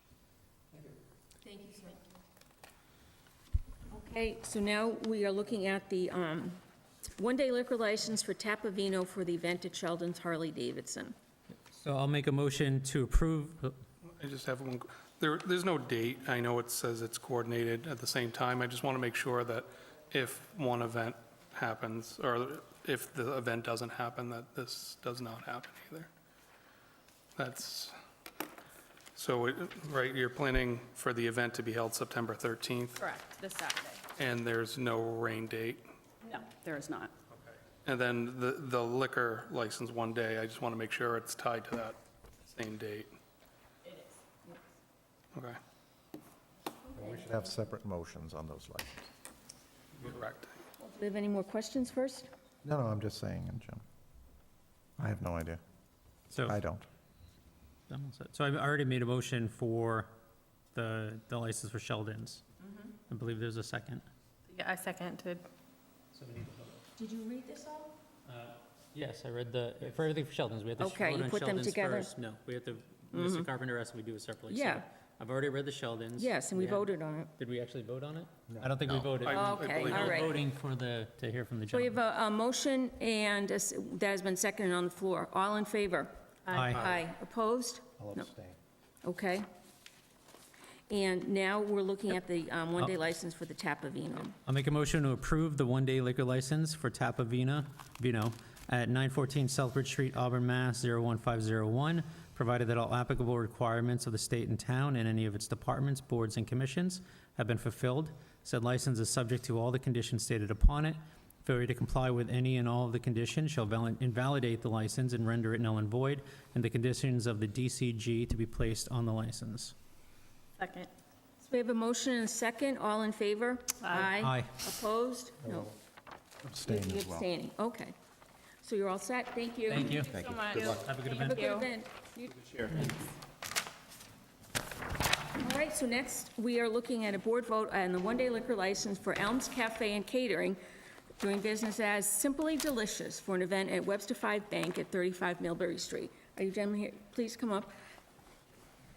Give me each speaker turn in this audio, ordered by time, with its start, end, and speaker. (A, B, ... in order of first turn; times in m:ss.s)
0:01.4-0:02.0 A
0:03.9-0:11.2 A
0:11.7-0:13.8 B
0:14.2-0:26.1 C
0:27.4-0:28.0 C
0:29.2-0:33.0 C
0:33.0-0:34.0 D
0:34.2-0:35.9 C
0:36.2-0:37.1 D
0:37.3-0:43.1 C
0:43.8-0:44.5 D
0:45.4-0:45.6 C
0:46.9-0:48.9 E
0:50.0-0:50.6 C
0:50.8-0:52.3 A
0:52.6-0:53.8 E
0:55.0-0:55.6 E
0:56.3-0:56.6 B
0:56.5-0:56.9 E
0:57.9-1:00.1 B
1:00.7-1:02.4 B
1:03.1-1:04.0 B
1:04.5-1:05.5 F
1:06.1-1:06.9 B
1:07.0-1:08.0 A
1:08.3-1:22.0 B
1:10.8-1:12.1 A
1:13.1-1:13.5 A
1:14.5-1:14.8 A
1:16.2-1:17.3 A
1:18.9-1:20.4 C
1:19.2-1:20.4 A
1:21.7-1:26.1 A
1:26.5-1:26.8 B
1:26.6-1:26.9 C
1:26.7-1:28.3 A
1:28.0-1:28.6 E
1:29.0-1:29.5 A
1:30.9-1:34.4 A
1:34.4-1:59.7 B
2:00.6-2:00.9 F
2:01.4-2:05.7 A
2:04.1-2:04.5 B
2:06.4-2:07.2 E
2:06.6-2:08.0 A
2:08.6-2:10.2 A
2:09.7-2:11.5 B
2:10.2-2:11.6 F
2:10.8-2:12.9 A
2:15.4-2:20.6 A
2:21.2-2:27.7 A